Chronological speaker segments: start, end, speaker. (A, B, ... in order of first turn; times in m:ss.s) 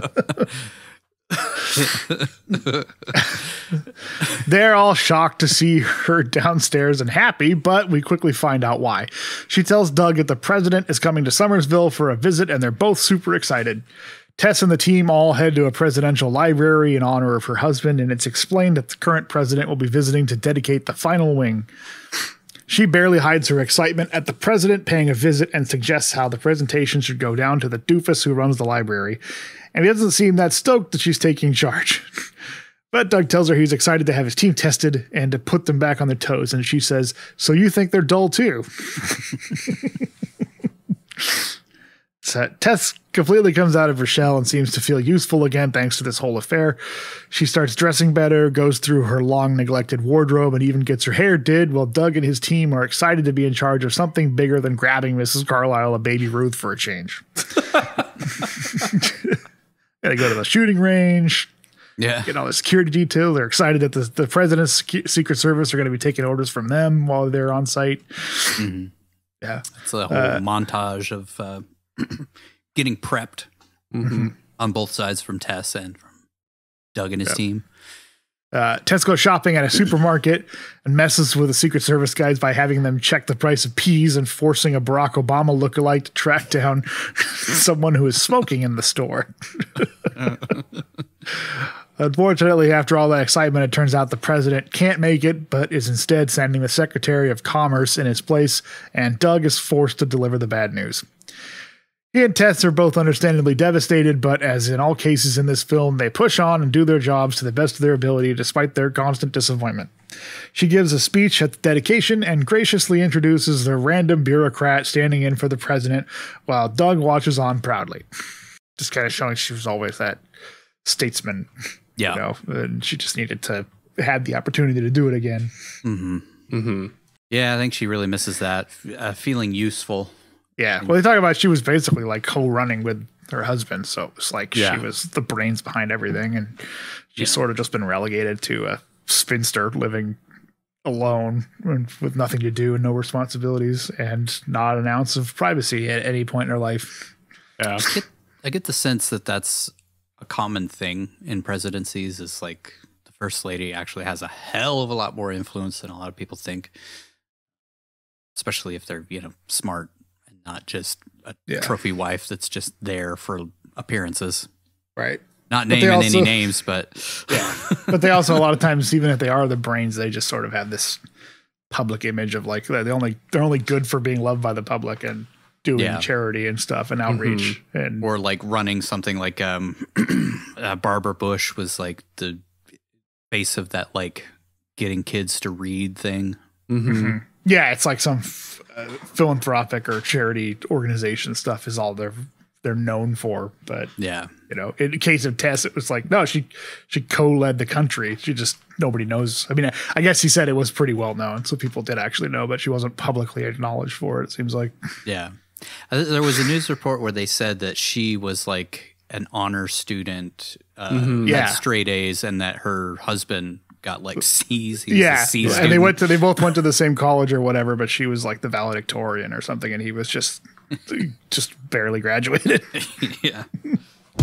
0:04.3-0:13.9 A
0:14.4-0:21.7 A
0:22.7-0:29.2 A
0:29.7-0:32.1 A
0:32.9-0:39.9 A
0:42.2-0:46.8 A
0:47.3-0:57.2 A
0:58.8-0:59.4 A
1:00.0-1:01.5 A
1:02.0-1:02.3 B
1:02.3-1:08.6 A
1:08.6-1:08.9 B
1:09.4-1:10.4 A
1:09.8-1:13.5 B
1:13.9-1:14.3 C
1:14.6-1:16.1 B
1:17.0-1:17.6 B
1:18.5-1:29.8 A
1:30.2-1:30.6 B
1:31.5-1:41.1 A
1:42.1-1:49.9 A
1:50.5-1:58.0 A
1:58.8-2:00.2 A
2:00.8-2:01.5 A
2:02.0-2:05.5 A
2:05.8-2:06.3 B
2:06.5-2:06.9 C
2:07.3-2:10.1 B
2:10.6-2:20.2 A
2:14.5-2:14.9 C
2:20.8-2:27.1 A
2:27.6-2:27.9 C
2:27.8-2:36.7 B
2:38.4-2:44.5 B
2:45.0-2:46.4 A
2:45.5-2:47.9 B
2:47.3-2:51.0 A
2:51.7-2:58.1 A
2:55.8-2:56.1 B
2:57.1-2:57.6 C
2:58.0-3:02.4 B
3:03.3-3:06.4 B
3:06.7-3:07.2 C
3:06.9-3:13.9 A
3:14.0-3:14.3 B
3:14.5-3:24.8 A
3:25.1-3:25.4 B
3:25.9-3:36.2 B
3:30.9-3:31.4 C
3:31.3-3:31.6 A
3:34.9-3:42.9 A
3:35.4-3:35.9 C
3:42.8-3:43.5 B